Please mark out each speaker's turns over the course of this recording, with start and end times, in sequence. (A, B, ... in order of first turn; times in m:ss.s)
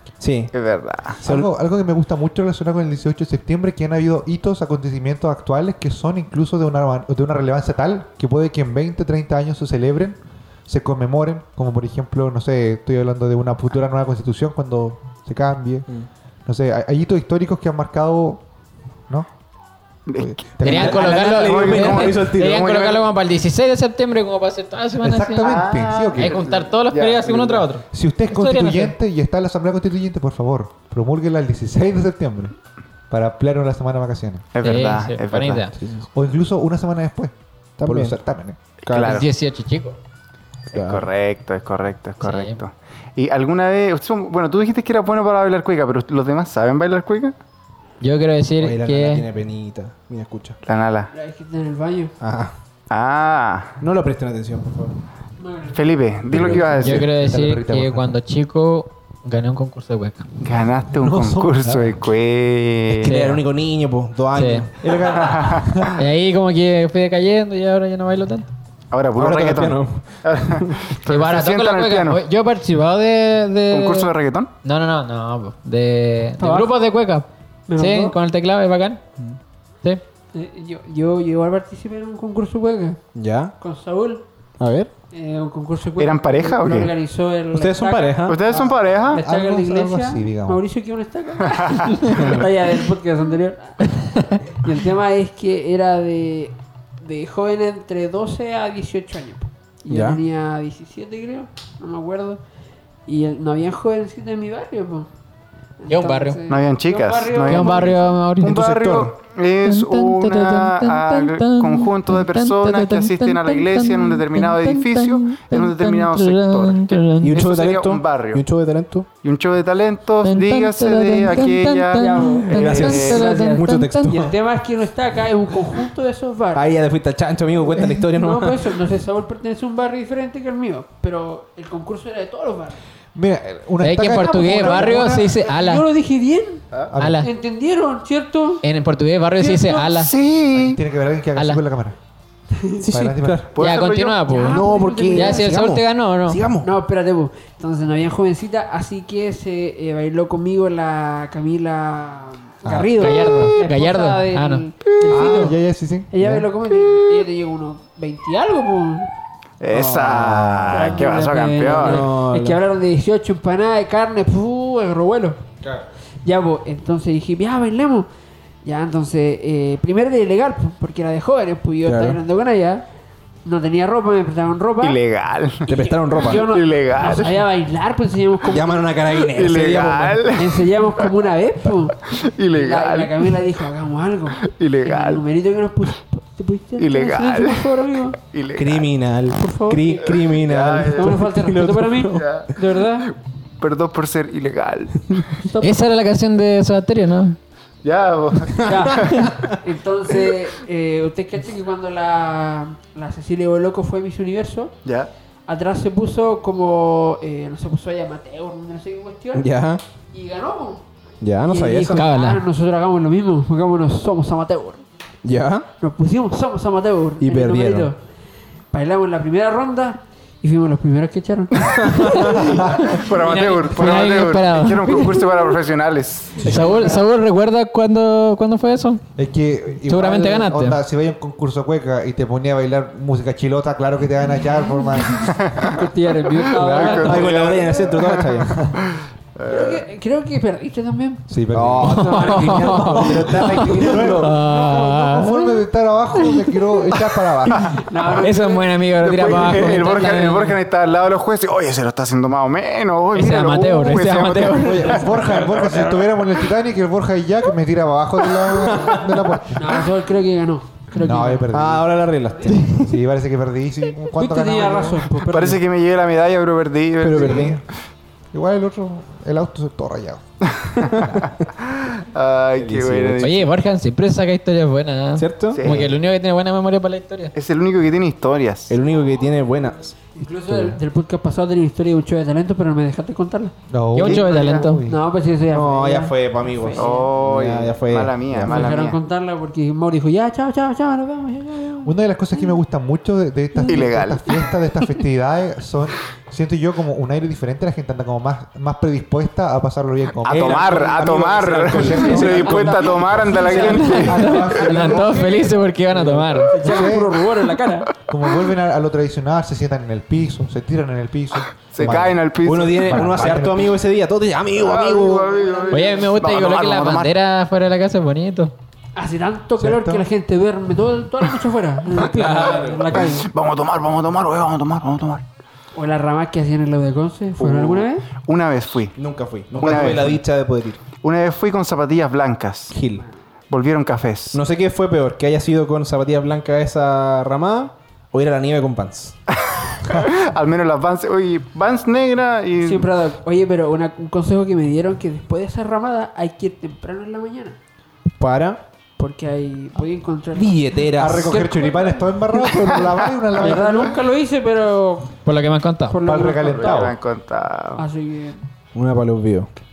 0:00.2-0:00.5 A
0:00.5-0:01.2 B
0:01.2-0:01.5 A
0:01.2-0:15.9 C
0:16.5-0:18.4 C
0:20.1-0:23.1 B
0:20.2-0:21.4 C
0:20.6-0:29.0 D
0:20.6-0:22.7 A
0:25.0-0:26.4 C
0:25.4-0:27.7 B
0:27.9-0:32.6 C
0:33.1-0:34.4 C
0:34.5-0:35.7 B
0:34.6-0:35.7 D
0:35.7-0:36.1 A
0:36.1-0:37.3 C
0:37.8-0:38.2 A
0:37.8-0:38.6 C
0:38.8-0:39.3 B
0:38.8-0:39.3 A
0:38.9-0:40.0 D
0:40.7-0:47.3 B
0:40.7-0:41.1 A
0:42.2-0:42.6 D
0:48.0-0:49.2 D
0:48.6-0:50.6 A
0:50.6-0:51.1 B
0:51.1-0:52.2 E
0:52.2-0:52.5 A
0:52.9-0:53.8 B
0:53.8-0:55.0 A
0:55.4-0:55.8 E
0:55.7-0:57.1 B
0:56.3-0:58.2 C
0:56.8-1:00.2 D
1:00.4-1:03.1 B
1:00.9-1:02.0 C
1:02.9-1:03.4 D
1:03.1-1:05.0 A
1:04.3-1:04.7 D
1:04.8-1:06.1 C
1:05.0-1:06.0 B
1:06.0-1:08.5 D
1:08.9-1:12.2 B
1:09.2-1:10.9 A
1:11.1-1:14.1 D
1:13.7-1:14.5 B
1:14.6-1:19.0 D
1:16.4-1:16.8 E
1:17.7-1:18.2 E
1:20.3-1:23.0 E
1:23.2-1:23.5 A
1:23.6-1:24.2 E
1:24.6-1:24.9 A
1:25.1-1:28.4 E
1:26.0-1:26.9 B
1:27.5-1:28.4 A
1:28.2-1:29.2 B
1:28.5-1:30.6 C
1:29.1-1:33.9 E
1:31.5-1:31.9 B
1:32.1-1:32.5 A
1:34.5-1:42.4 E
1:39.9-1:40.2 A
1:43.1-1:45.1 E
1:45.8-1:48.1 E
1:45.9-1:46.4 D
1:46.5-1:58.4 B
1:47.4-1:48.6 D
1:48.4-1:49.1 A
1:49.6-1:57.4 D
1:57.2-1:59.1 A
1:59.2-2:03.2 B
2:00.2-2:04.1 D
2:02.0-2:06.7 E
2:02.4-2:04.4 A
2:06.5-2:08.8 A
2:07.9-2:12.8 E
2:13.1-2:15.3 C
2:13.8-2:15.8 D
2:14.5-2:16.7 E
2:16.9-2:17.3 C
2:17.0-2:17.3 D
2:17.2-2:18.6 E
2:18.6-2:20.1 D
2:19.4-2:20.0 E
2:19.9-2:20.8 B
2:20.6-2:22.0 C
2:21.4-2:21.6 D
2:22.5-2:22.9 E
2:22.8-2:23.6 A
2:22.9-2:23.4 C
2:23.6-2:24.2 B
2:23.6-2:26.4 D
2:24.3-2:25.6 E
2:24.4-2:26.7 A
2:26.6-2:35.6 E
2:32.6-2:33.1 C
2:33.0-2:34.7 D
2:35.1-2:36.5 C
2:36.1-2:39.1 E
2:39.6-2:42.0 B
2:39.7-2:45.4 E
2:40.2-2:41.0 A
2:41.7-2:42.6 A
2:46.2-2:48.1 E
2:48.6-2:52.9 E
2:51.8-2:52.2 A
2:53.4-2:55.0 E
2:54.8-2:55.7 B
2:55.7-2:59.0 E
2:55.7-2:56.5 A
2:56.4-2:57.4 B
2:58.5-3:00.4 A
2:59.1-3:00.6 B
3:00.3-3:02.0 E
3:02.1-3:03.2 B
3:02.5-3:08.2 E
3:04.4-3:05.2 B
3:06.8-3:07.7 B
3:08.2-3:08.9 B
3:08.6-3:12.5 A
3:09.3-3:10.2 E
3:10.2-3:11.2 B
3:10.8-3:13.1 E
3:12.2-3:12.5 B
3:13.6-3:15.3 B
3:15.4-3:15.8 E
3:15.6-3:17.4 D
3:17.8-3:19.3 B
3:18.6-3:19.6 A
3:18.6-3:24.7 E
3:24.8-3:25.1 B
3:25.5-3:29.5 E
3:29.3-3:29.8 A
3:30.1-3:30.8 E
3:31.2-3:32.1 A
3:31.4-3:34.8 E
3:31.9-3:32.4 D
3:35.2-3:35.7 A
3:35.8-3:38.0 E
3:37.2-3:37.9 A
3:38.7-3:42.8 E
3:41.6-3:42.4 A
3:42.1-3:45.2 D
3:42.4-3:42.8 C
3:42.8-3:46.7 B
3:44.9-3:45.2 E
3:46.4-3:49.0 D
3:46.4-3:47.0 E
3:49.2-3:55.5 C
3:49.8-3:50.8 D
3:55.4-3:55.8 B
3:55.6-3:57.8 E
3:56.6-3:58.2 B
3:56.9-3:58.7 A
3:58.7-3:59.8 B
3:59.4-4:01.3 E
4:01.3-4:07.7 C
4:01.5-4:04.3 A
4:01.8-4:04.3 E
4:01.9-4:05.6 D
4:06.2-4:06.6 D
4:07.8-4:08.7 E
4:08.1-4:10.6 D
4:09.0-4:16.0 B
4:09.2-4:09.8 E
4:13.1-4:15.1 D
4:14.6-4:15.8 A
4:14.8-4:19.8 C
4:18.3-4:19.5 A
4:19.6-4:21.5 E
4:21.0-4:21.9 C
4:21.5-4:22.8 A
4:22.5-4:25.1 C
4:24.2-4:25.6 E
4:25.3-4:27.6 B
4:27.0-4:27.6 A
4:27.1-4:27.6 C
4:28.3-4:30.2 C
4:30.6-4:33.5 B
4:30.9-4:31.2 C
4:32.6-4:33.3 A
4:33.2-4:37.3 D
4:35.2-4:35.6 A
4:35.5-4:36.0 B
4:37.4-4:38.8 B
4:38.7-4:40.0 A
4:40.1-4:43.5 E
4:40.5-4:40.8 C
4:43.7-4:45.0 C
4:43.9-4:44.8 D
4:44.1-4:47.2 E
4:44.1-4:44.7 B
4:45.5-4:48.8 A
4:46.8-4:49.0 B
4:48.4-4:52.6 E
4:51.8-5:00.8 C
4:53.6-4:54.6 E
4:53.7-4:54.4 B
5:00.2-5:04.6 B
5:00.3-5:03.7 A
5:01.7-5:05.4 C
5:02.0-5:08.0 E
5:03.6-5:06.6 D
5:06.0-5:06.3 A
5:06.6-5:07.2 C
5:08.0-5:13.8 C
5:11.7-5:13.3 B
5:12.4-5:15.3 A
5:14.6-5:17.1 B
5:15.3-5:16.1 E
5:15.7-5:18.5 D
5:19.0-5:23.3 E
5:19.6-5:20.1 C
5:22.1-5:22.6 D
5:22.3-5:22.9 A
5:22.9-5:25.2 B
5:25.7-5:28.1 E
5:27.4-5:27.9 A
5:28.2-5:29.0 B
5:29.0-5:30.8 A
5:29.5-5:30.2 B
5:31.0-5:32.8 B
5:32.7-5:33.0 A
5:33.5-5:34.4 B
5:34.3-5:39.2 A
5:39.5-5:42.9 B
5:42.6-5:47.6 E
5:48.2-5:48.6 A
5:49.0-5:55.2 E
5:50.3-5:51.4 A
5:51.0-5:54.0 C
5:55.2-5:56.0 D
5:55.9-5:56.9 E
5:56.0-5:57.0 C
5:56.4-5:57.8 B
5:57.8-5:58.4 E
5:58.7-5:59.5 A